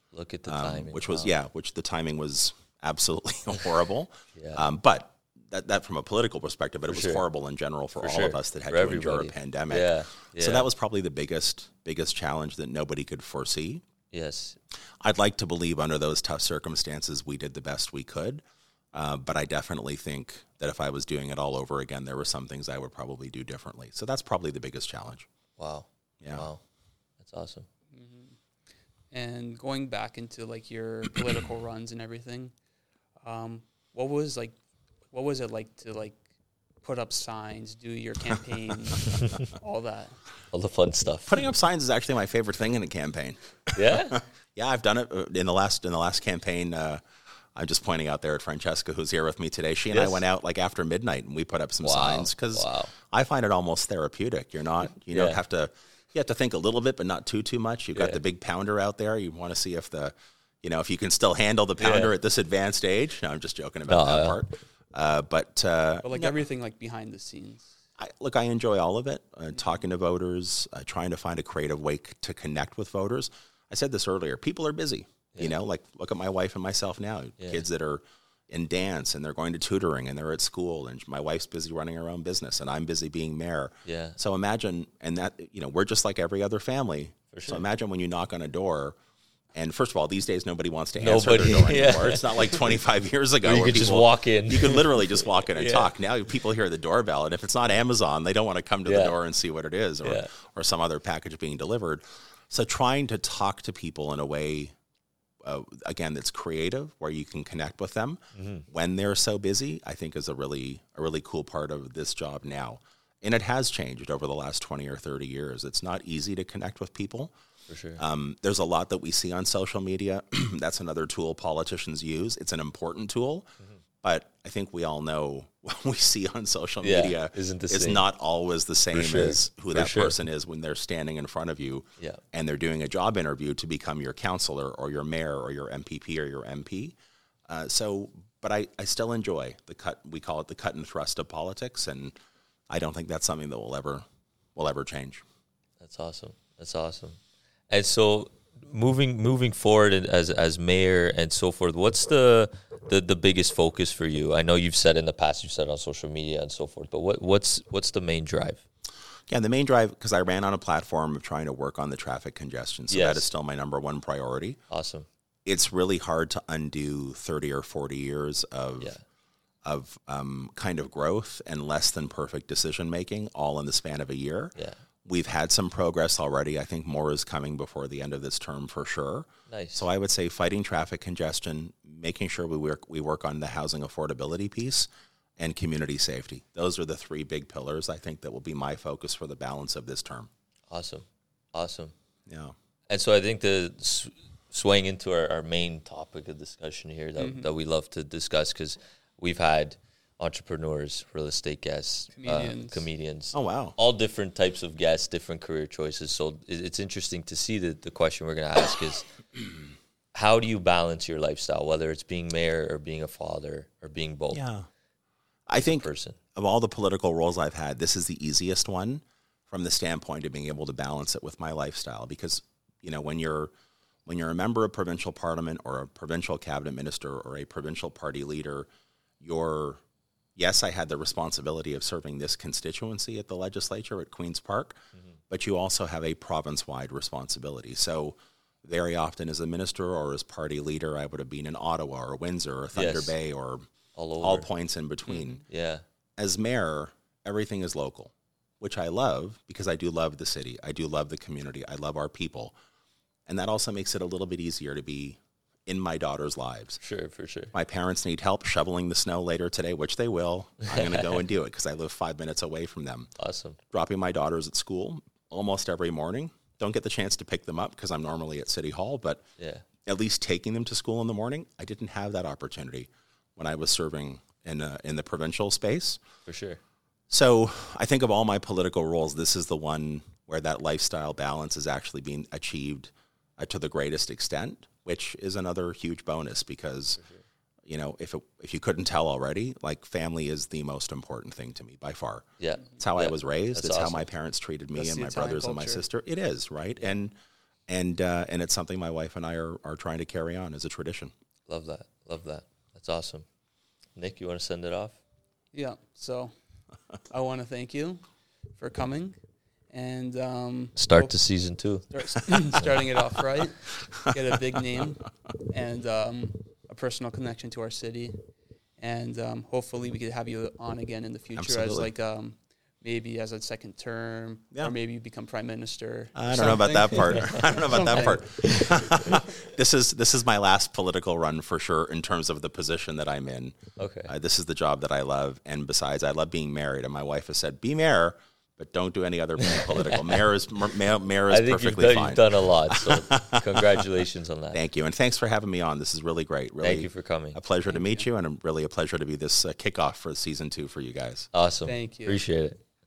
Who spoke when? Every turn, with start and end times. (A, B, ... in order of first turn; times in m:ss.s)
0:00.1-0:01.4 A
0:00.5-0:13.8 B
0:04.4-0:04.6 A
0:06.9-0:07.2 A
0:08.0-0:10.7 A
0:14.1-0:14.6 A
0:15.0-0:25.3 B
0:25.6-0:26.6 A
0:26.2-0:26.5 B
0:27.2-0:27.7 A
0:27.9-0:28.4 C
0:29.1-0:32.5 C
0:33.2-0:34.6 C
0:35.1-0:36.2 C
0:36.8-0:40.2 C
0:40.5-0:41.5 A
0:41.3-0:47.0 B
0:43.8-0:44.2 A
0:47.6-1:06.4 B
0:49.9-0:50.2 A
0:51.8-0:52.9 A
0:55.1-0:55.4 A
0:58.0-0:58.2 A
1:01.8-1:02.1 A
1:03.9-1:04.4 A
1:06.0-1:07.7 C
1:08.0-1:29.0 B
1:17.4-1:17.6 A
1:23.8-1:24.2 A
1:27.3-1:27.6 A
1:29.5-1:44.7 B
1:31.0-1:32.7 A
1:33.4-1:35.9 A
1:38.8-1:39.2 A
1:40.0-1:40.3 A
1:45.4-1:57.3 B
1:48.4-1:48.7 A
1:57.7-1:58.0 A
1:58.0-2:17.0 B
2:06.8-2:08.0 A
2:08.9-2:10.2 A
2:17.5-2:22.2 B
2:22.7-2:24.0 B
2:24.6-2:25.2 B
2:25.8-2:27.2 A
2:27.7-2:38.6 A
2:39.3-2:44.6 B
2:42.9-2:43.3 A
2:44.7-2:45.1 A
2:45.5-2:48.9 B
2:49.6-2:54.5 B
2:55.0-3:10.3 B
2:59.5-2:59.9 A
3:10.7-3:11.9 A
3:12.3-3:12.6 B
3:12.9-3:29.1 A
3:17.2-3:17.5 C
3:22.2-3:22.8 C
3:23.3-3:23.8 B
3:30.1-3:34.4 A
3:34.3-3:34.7 B
3:35.5-3:43.5 B
3:35.6-3:36.2 A
3:44.1-3:48.7 B
3:49.2-3:49.8 B
3:50.4-4:03.6 B
4:02.7-4:03.2 A
4:04.0-4:04.5 A
4:04.2-4:05.4 B
4:05.4-4:05.8 A
4:06.2-4:12.5 B
4:13.3-4:16.8 B
4:16.8-4:17.5 A
4:17.5-4:23.1 B
4:20.7-4:21.0 A
4:23.2-4:23.6 A
4:23.7-4:29.2 B
4:29.4-4:29.6 A
4:29.8-4:36.0 B
4:36.3-4:36.6 A
4:37.1-4:47.0 B
4:47.0-4:47.2 A
4:47.7-4:52.2 B
4:52.4-4:54.1 A
4:52.8-4:57.2 B
4:54.8-4:55.8 C
4:57.7-5:01.1 B
5:01.5-5:03.2 A
5:04.0-5:05.0 A
5:05.5-5:06.3 C
5:07.1-5:08.0 C
5:08.6-5:09.2 C
5:09.7-5:11.2 C
5:10.8-5:11.9 A
5:11.9-5:18.2 C
5:18.8-5:29.0 C
5:21.4-5:21.9 B
5:26.2-5:33.6 B
5:33.8-5:34.1 A
5:34.1-5:43.8 B
5:39.4-5:40.2 A
5:41.3-5:44.6 A
5:44.5-5:51.3 B
5:46.6-5:47.4 A
5:47.7-5:48.0 C
5:51.3-5:52.6 A
5:51.7-5:52.2 C